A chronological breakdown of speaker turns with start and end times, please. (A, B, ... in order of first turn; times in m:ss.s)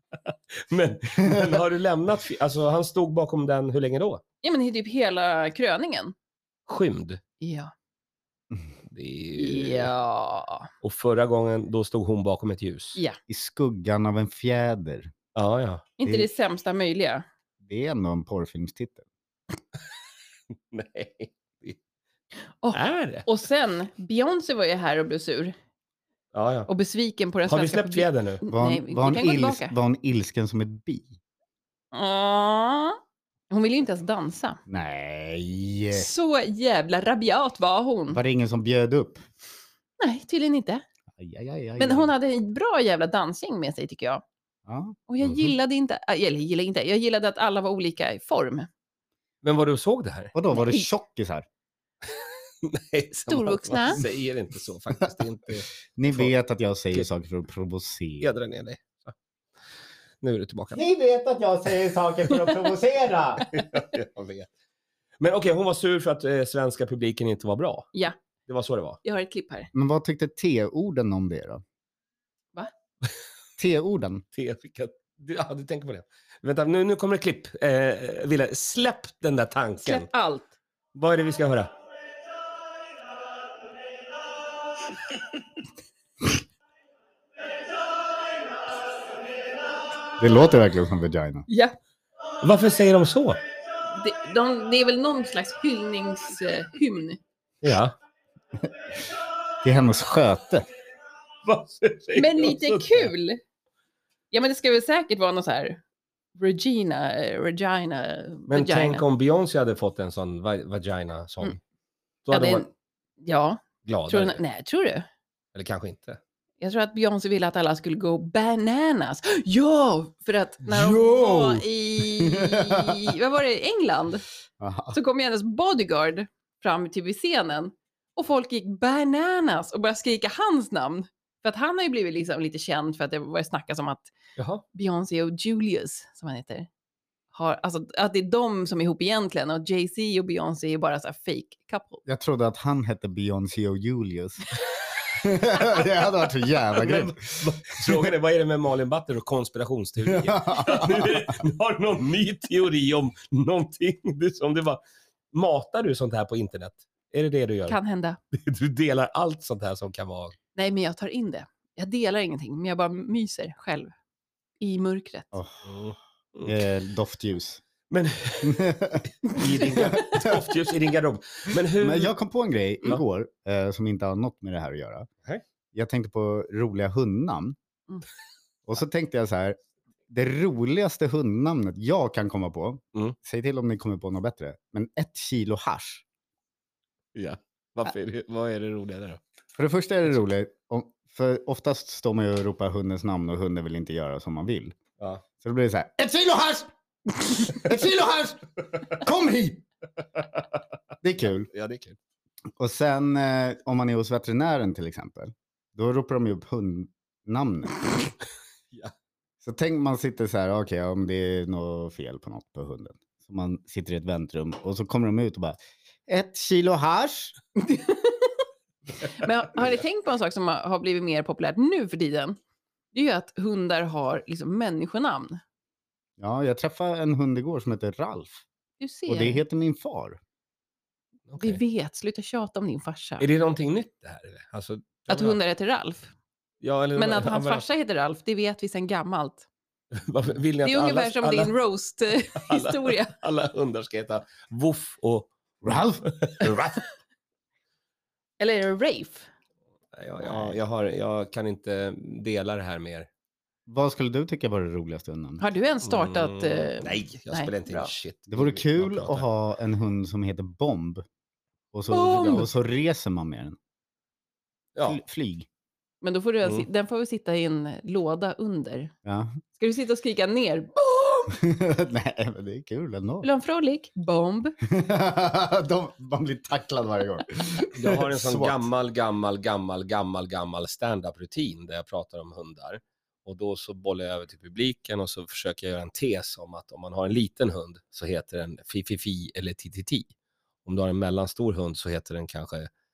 0:00.3-0:04.2 A
0:01.2-0:01.6 B
0:04.4-0:06.1 C
0:06.7-0:07.2 A
0:07.4-0:07.7 C
0:08.9-0:09.9 A
0:09.4-0:10.7 C
0:10.8-0:13.0 A
0:13.3-0:15.1 B
0:15.3-0:15.9 A
0:16.0-0:17.2 C
0:17.6-0:19.0 B
0:20.7-0:21.8 A
0:22.6-0:25.5 C
0:22.7-0:23.3 A
0:26.3-0:26.7 A
0:26.7-0:29.7 C
0:27.4-0:28.4 A
0:28.5-0:31.2 B
0:31.9-0:33.0 C
0:33.5-0:34.6 C
0:34.7-0:36.1 B
0:35.9-0:38.2 C
0:38.1-0:39.2 B
0:40.0-0:40.8 C
0:41.2-0:42.1 B
0:41.8-0:44.2 C
0:44.6-0:45.0 B
0:45.1-0:48.7 C
0:49.4-0:50.3 A
0:50.3-0:51.4 B
0:50.5-0:50.8 C
0:52.6-0:56.3 A
0:53.3-0:54.0 C
0:56.0-0:58.3 B
0:58.2-0:59.1 A
1:00.2-1:00.8 A
1:00.7-1:03.4 B
1:03.5-1:04.5 A
1:05.2-1:07.9 A
1:08.5-1:09.0 A
1:09.0-1:09.7 C
1:09.7-1:11.6 B
1:13.6-1:14.2 B
1:14.3-1:20.1 A
1:19.8-1:20.5 C
1:20.9-1:21.7 A
1:30.2-1:31.5 B
1:31.5-1:31.8 C
1:32.4-1:33.4 A
1:33.9-1:37.2 C
1:37.6-1:37.9 A
1:39.6-1:40.6 B
1:41.4-1:43.1 A
1:42.1-1:43.4 C
1:44.3-1:45.8 C
1:46.4-1:49.0 C
1:48.5-1:51.6 A
1:52.2-1:52.6 A
1:52.3-1:52.7 C
1:53.2-1:55.1 C
1:53.8-1:54.4 A
1:55.5-1:56.2 A
1:56.6-2:04.2 C
2:00.7-2:03.1 B
2:04.6-2:05.0 B
2:04.9-2:14.1 C
2:14.4-2:14.6 A
2:14.7-2:16.7 C
2:17.3-2:22.0 C
2:22.0-2:28.1 B
2:26.7-2:34.8 A
2:30.0-2:31.4 B
2:35.3-2:37.8 A
2:37.7-2:38.2 C
2:38.3-2:40.4 A
2:40.5-2:43.9 C
2:44.6-2:45.4 C
2:45.3-2:45.7 B
2:45.6-2:46.6 A
2:46.4-2:47.6 B
2:47.9-2:52.1 A
2:48.4-2:50.5 B
2:51.5-2:55.1 B
2:55.7-2:57.6 B
2:58.6-2:59.6 B
3:00.1-3:06.0 B
3:07.1-3:09.2 A
3:09.6-3:14.8 B
3:15.4-3:19.6 B
3:21.0-3:21.5 B
3:21.5-3:22.0 A
3:22.6-3:28.1 B
3:29.4-3:37.3 B
3:37.6-3:38.4 C
3:39.0-3:42.4 C
3:42.9-3:45.4 C
3:46.2-3:48.4 B
3:48.8-3:49.4 C
3:49.1-3:50.2 B
3:51.3-3:51.6 A
3:51.4-3:53.3 C
3:53.2-3:55.4 A
3:55.1-3:56.1 C
3:56.6-3:57.6 A
3:57.0-3:59.5 C
3:59.9-4:01.6 A
4:00.6-4:03.1 C
4:02.3-4:06.8 A
4:05.6-4:06.6 B
4:08.4-4:09.3 C
4:09.9-4:13.1 A
4:10.3-4:10.5 C
4:13.7-4:15.4 B
4:15.4-4:17.9 C
4:15.8-4:19.2 A
4:18.3-4:21.0 B
4:21.7-4:23.6 B
4:21.9-4:22.5 C
4:24.8-4:25.5 B
4:26.0-4:28.9 C
4:29.0-4:29.4 B
4:29.6-4:31.3 C
4:31.3-4:33.3 B
4:33.2-4:34.6 C
4:34.6-4:38.6 B
4:37.7-4:50.1 A
4:50.6-4:52.7 A